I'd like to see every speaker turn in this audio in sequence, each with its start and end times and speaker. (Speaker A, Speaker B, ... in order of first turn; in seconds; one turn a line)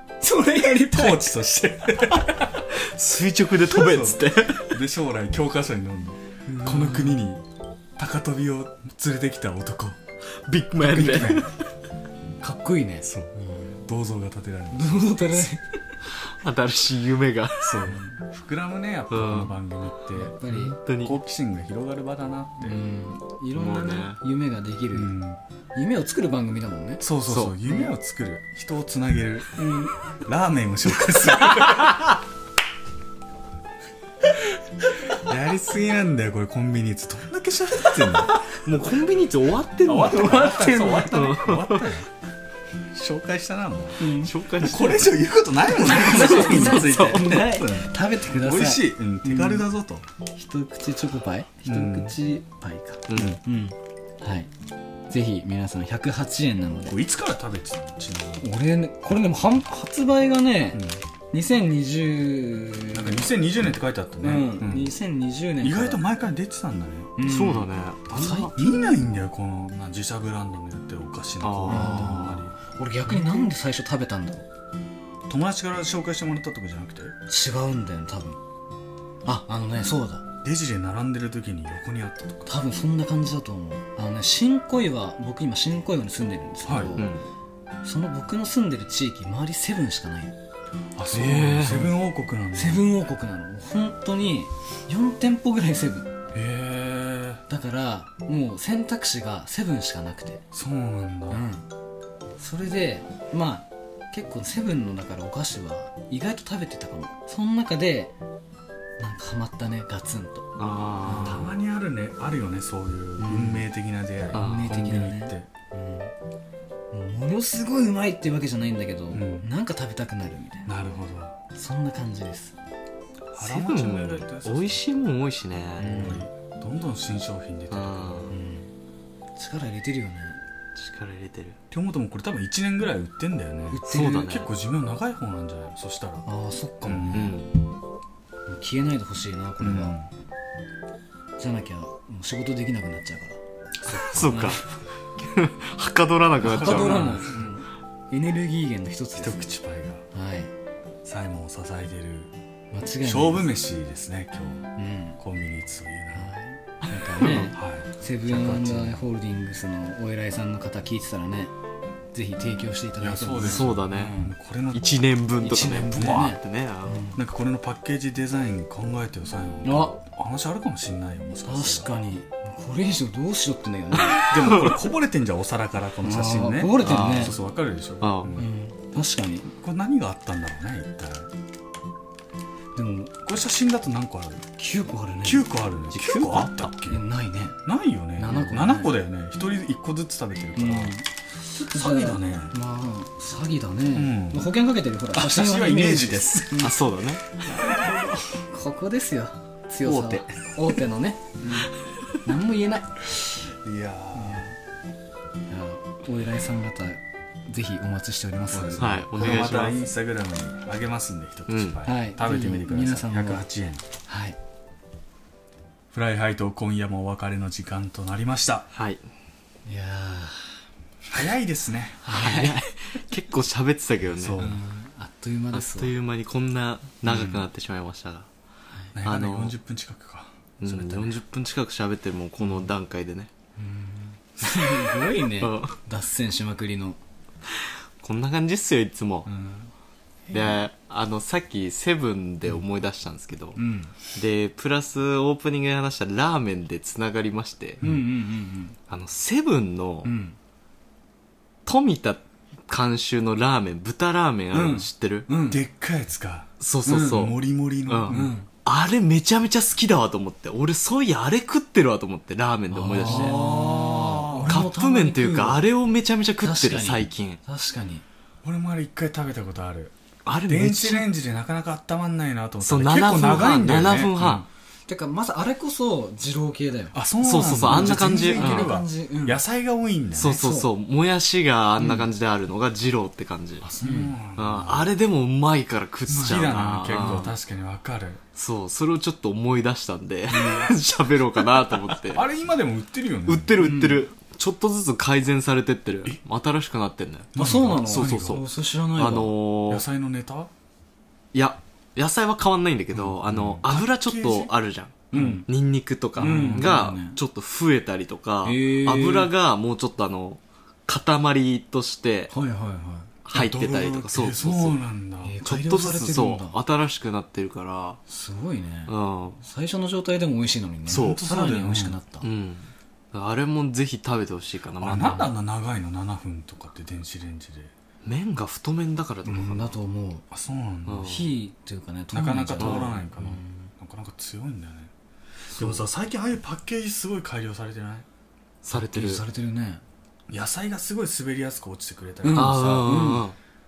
Speaker A: 0.2-1.4
Speaker B: 0.8-2.5
Speaker C: 2.7-4.8
Speaker B: 3.7-7.5
Speaker A: 6.5-7.2
Speaker B: 8.0-10.0
Speaker C: 10.5-11.5
Speaker B: 10.8-11.5
Speaker A: 12.4-13.8
Speaker B: 13.8-15.5
Speaker A: 14.7-15.7
Speaker C: 16.3-17.9
Speaker B: 17.6-20.4
Speaker A: 17.9-18.2
Speaker C: 19.1-19.6
Speaker A: 20.1-20.8
Speaker C: 20.5-21.1
Speaker B: 21.0-22.8
Speaker A: 22.6-25.2
Speaker C: 23.5-24.2
Speaker B: 24.9-25.4
Speaker A: 25.8-27.1
Speaker B: 27.0-32.1
Speaker C: 27.3-27.6
Speaker A: 29.6-29.9
Speaker C: 31.6-31.9
Speaker B: 35.1-38.5
Speaker C: 38.5-41.9
Speaker B: 39.9-42.1
Speaker A: 40.5-41.0
Speaker B: 42.9-50.1
Speaker A: 44.0-44.3
Speaker C: 44.1-45.2
Speaker A: 45.8-49.6
Speaker C: 45.9-47.4
Speaker A: 50.3-54.5
Speaker B: 51.7-52.2
Speaker C: 53.1-53.4
Speaker B: 53.1-53.4
Speaker A: 55.1-57.0
Speaker B: 56.9-58.5
Speaker A: 58.4-63.2
Speaker B: 60.7-61.0
Speaker B: 62.9-64.9
Speaker A: 64.2-66.0
Speaker B: 65.6-67.2
Speaker A: 67.2-68.5
Speaker C: 67.2-68.6
Speaker B: 68.5-72.5
Speaker C: 71.4-72.5
Speaker A: 71.7-74.5
Speaker B: 75.3-77.2
Speaker A: 77.3-78.4
Speaker A: 79.2-80.3
Speaker B: 80.4-82.5
Speaker A: 82.5-87.1
Speaker B: 86.7-87.0
Speaker C: 87.0-87.2
Speaker A: 87.8-90.3
Speaker B: 91.0-92.9
Speaker C: 91.1-91.9
Speaker A: 92.5-96.1
Speaker B: 96.3-97.4
Speaker A: 97.5-100.4
Speaker B: 100.5-101.4
Speaker A: 101.3-101.7
Speaker A: 102.4-108.1
Speaker A: 109.0-110.5
Speaker C: 110.6-111.5
Speaker A: 111.0-111.5
Speaker B: 111.1-115.5
Speaker A: 113.2-113.7
Speaker A: 114.3-116.1
Speaker C: 114.3-114.7
Speaker A: 116.9-120.7
Speaker B: 119.1-119.5
Speaker B: 120.7-121.4
Speaker A: 121.5-122.5
Speaker C: 123.3-126.2
Speaker B: 123.3-124.8
Speaker A: 125.8-126.3
Speaker B: 125.8-128.3
Speaker C: 127.7-128.3
Speaker A: 128.3-128.7
Speaker A: 129.4-130.4
Speaker C: 130.8-131.6
Speaker B: 131.7-136.3
Speaker A: 133.7-134.3
Speaker C: 133.9-134.5
Speaker A: 136.3-137.4
Speaker B: 136.8-137.3
Speaker C: 137.1-137.5
Speaker A: 138.5-140.0
Speaker B: 139.6-140.1
Speaker A: 141.4-143.4
Speaker B: 143.8-144.6
Speaker C: 144.1-144.6
Speaker A: 144.2-144.6
Speaker C: 145.2-147.2
Speaker B: 146.4-147.5
Speaker A: 146.4-149.5
Speaker B: 149.2-150.1
Speaker A: 150.1-150.5
Speaker B: 151.0-152.3
Speaker A: 152.7-153.5
Speaker B: 153.0-156.4
Speaker A: 154.8-155.2
Speaker A: 156.1-161.5
Speaker C: 157.2-157.5
Speaker B: 157.3-159.1
Speaker A: 162.1-164.3
Speaker B: 163.0-165.0
Speaker C: 163.4-164.2
Speaker C: 164.7-167.1
Speaker A: 165.4-167.2
Speaker B: 165.9-166.3
Speaker B: 167.2-171.9
Speaker A: 169.6-170.0
Speaker A: 171.5-174.6
Speaker B: 174.0-178.5
Speaker A: 176.0-177.4
Speaker C: 176.8-177.4
Speaker C: 178.0-178.4
Speaker A: 178.3-179.5
Speaker B: 179.5-181.3
Speaker A: 182.8-183.2
Speaker B: 183.2-184.4
Speaker A: 184.6-185.5
Speaker B: 185.2-187.0
Speaker C: 185.9-186.7
Speaker A: 186.8-187.6
Speaker B: 187.7-191.0
Speaker A: 188.2-188.9
Speaker A: 190.6-196.8
Speaker B: 191.7-192.6
Speaker B: 193.9-194.5
Speaker B: 195.1-196.7
Speaker C: 196.6-197.3
Speaker B: 197.4-198.3
Speaker A: 197.4-201.7
Speaker B: 199.8-200.6
Speaker A: 202.2-203.5
Speaker B: 203.5-204.6
Speaker A: 204.2-204.5
Speaker A: 205.5-208.9
Speaker B: 208.5-213.8
Speaker C: 208.8-209.8
Speaker C: 211.5-211.8
Speaker A: 211.8-213.4
Speaker A: 214.1-214.4
Speaker B: 215.9-218.7
Speaker C: 218.8-219.0
Speaker A: 219.7-220.6
Speaker B: 221.1-222.1
Speaker A: 222.0-222.6
Speaker C: 222.1-224.5
Speaker B: 224.2-224.6
Speaker A: 224.4-225.9
Speaker C: 225.5-228.3
Speaker B: 227.1-227.4
Speaker B: 229.0-231.2
Speaker C: 229.0-229.5
Speaker C: 230.6-233.3
Speaker A: 233.6-237.0
Speaker C: 235.4-235.8
Speaker C: 237.6-239.3
Speaker B: 239.3-239.7
Speaker C: 240.3-243.6
Speaker A: 243.6-243.9
Speaker C: 244.1-247.8
Speaker A: 247.8-248.8
Speaker C: 248.9-250.1
Speaker A: 250.0-250.4
Speaker C: 251.7-255.3
Speaker A: 254.5-255.6
Speaker B: 255.5-256.5
Speaker C: 256.6-263.7
Speaker A: 256.9-257.3
Speaker B: 257.0-258.3
Speaker A: 258.1-258.5
Speaker A: 262.7-265.6
Speaker B: 262.9-264.7
Speaker C: 264.4-267.4
Speaker A: 266.4-268.0
Speaker B: 268.4-269.9
Speaker C: 270.3-271.1
Speaker B: 270.4-274.5
Speaker C: 272.6-274.4
Speaker A: 274.9-277.0
Speaker B: 276.9-280.4
Speaker C: 277.2-278.7
Speaker A: 277.5-279.4
Speaker C: 280.2-283.7
Speaker A: 280.3-280.7
Speaker A: 281.8-282.1
Speaker B: 283.6-284.9
Speaker A: 283.8-284.1
Speaker C: 284.4-287.3
Speaker B: 286.1-288.2
Speaker A: 286.1-287.3
Speaker C: 288.4-292.2
Speaker A: 290.3-290.7
Speaker B: 292.1-293.6
Speaker C: 293.3-299.8
Speaker A: 293.6-294.1
Speaker B: 297.4-298.4
Speaker A: 297.4-299.4
Speaker B: 299.7-300.5
Speaker C: 301.3-312.3
Speaker B: 302.9-304.5
Speaker A: 305.1-305.5
Speaker B: 305.1-305.4
Speaker B: 306.2-306.9
Speaker A: 306.2-307.2
Speaker A: 308.4-309.3
Speaker A: 312.3-313.1
Speaker C: 313.2-314.8
Speaker B: 313.3-316.0
Speaker A: 315.2-316.6
Speaker C: 315.4-318.0
Speaker A: 318.1-322.3
Speaker C: 318.9-319.4
Speaker B: 320.9-322.0
Speaker C: 320.9-321.2
Speaker C: 322.2-325.3
Speaker B: 324.8-327.7
Speaker C: 328.0-329.8
Speaker A: 329.3-330.2
Speaker B: 330.3-331.1
Speaker C: 330.9-331.3
Speaker A: 331.0-333.7
Speaker B: 332.1-334.9
Speaker C: 332.6-332.9
Speaker B: 335.6-338.1
Speaker A: 335.6-335.8
Speaker C: 338.6-339.2
Speaker A: 338.7-339.8
Speaker B: 340.3-343.0
Speaker A: 342.2-343.3
Speaker C: 342.3-343.4